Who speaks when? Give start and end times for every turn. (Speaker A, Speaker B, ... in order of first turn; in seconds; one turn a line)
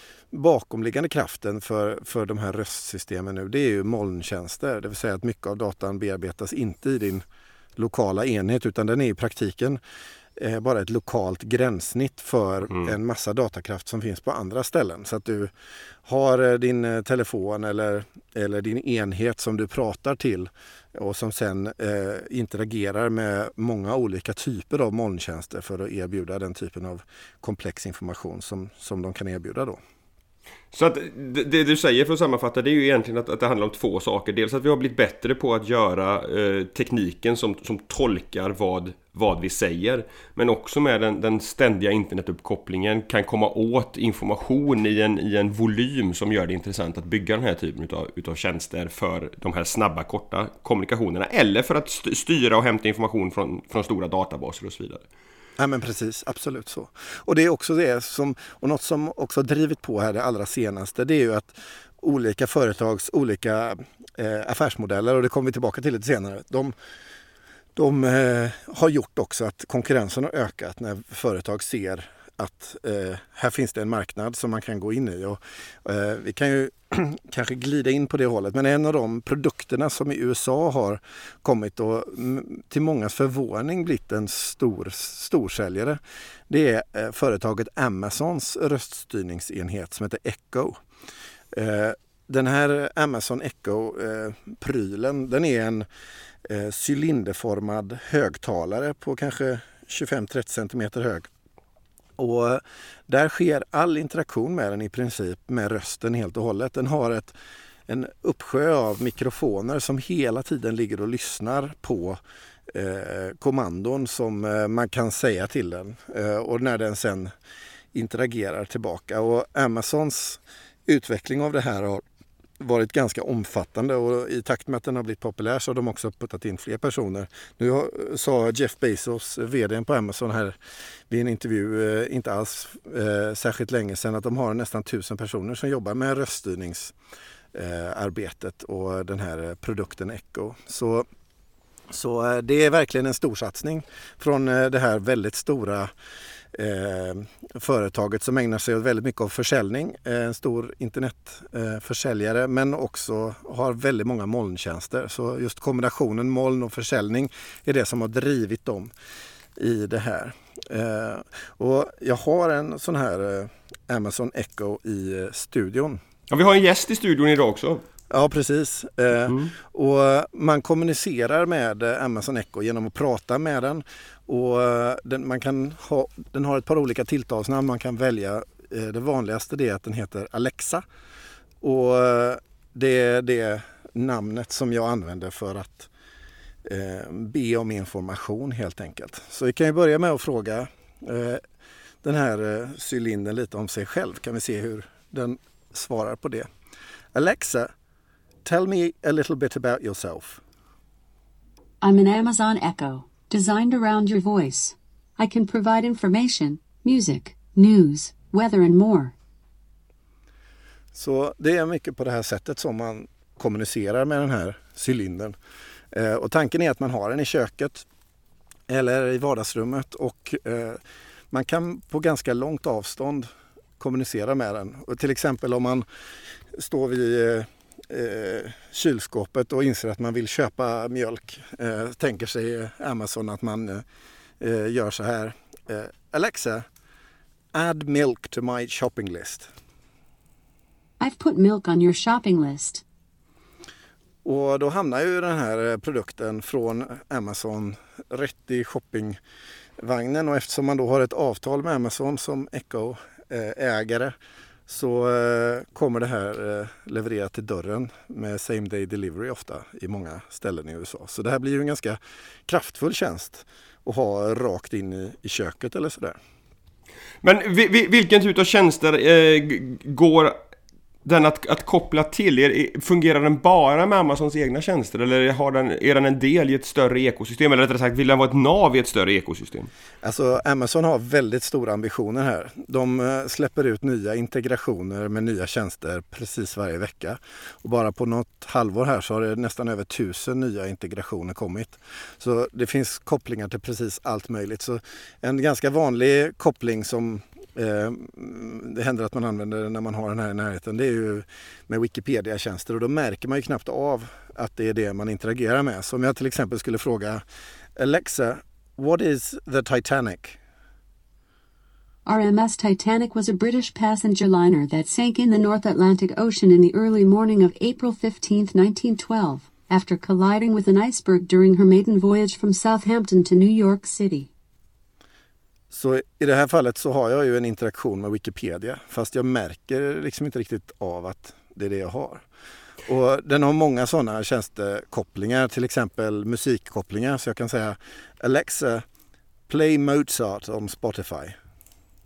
Speaker A: 0.3-7.2
Speaker A: 7.8-9.8
Speaker A: 10.3-15.5
Speaker A: 16.0-29.8
Speaker B: 30.7-55.0
Speaker A: 55.6-66.7
Speaker A: 67.7-90.8
Speaker A: 91.5-95.9
Speaker A: 96.4-101.3
Speaker A: 102.2-107.3
Speaker A: 107.9-117.3
Speaker A: 117.9-122.0
Speaker A: 122.6-130.6
Speaker A: 131.1-136.9
Speaker A: 137.5-141.1
Speaker A: 141.9-145.9
Speaker A: 146.5-158.9
Speaker A: 159.6-166.0
Speaker B: 166.3-167.8
Speaker A: 168.1-180.8
Speaker A: 181.6-185.9
Speaker A: 186.6-191.4
Speaker A: 192.0-196.5
Speaker A: 197.1-197.7
Speaker A: 198.4-200.4
Speaker C: 201.8-209.1
Speaker A: 210.9-215.3
Speaker A: 215.9-217.8
Speaker A: 218.7-223.3
Speaker A: 223.8-225.8
Speaker A: 226.5-233.8
Speaker A: 234.4-236.6
Speaker A: 237.5-239.5
Speaker C: 241.0-242.8
Speaker A: 244.2-249.2
Speaker A: 249.8-254.2
Speaker A: 254.7-266.2
Speaker B: 267.2-270.4
Speaker B: 271.0-279.7
Speaker A: 280.0-307.2
Speaker A: 307.8-310.4
Speaker C: 312.1-324.3
Speaker A: 325.7-332.2
Speaker A: 332.9-338.8
Speaker A: 339.5-341.4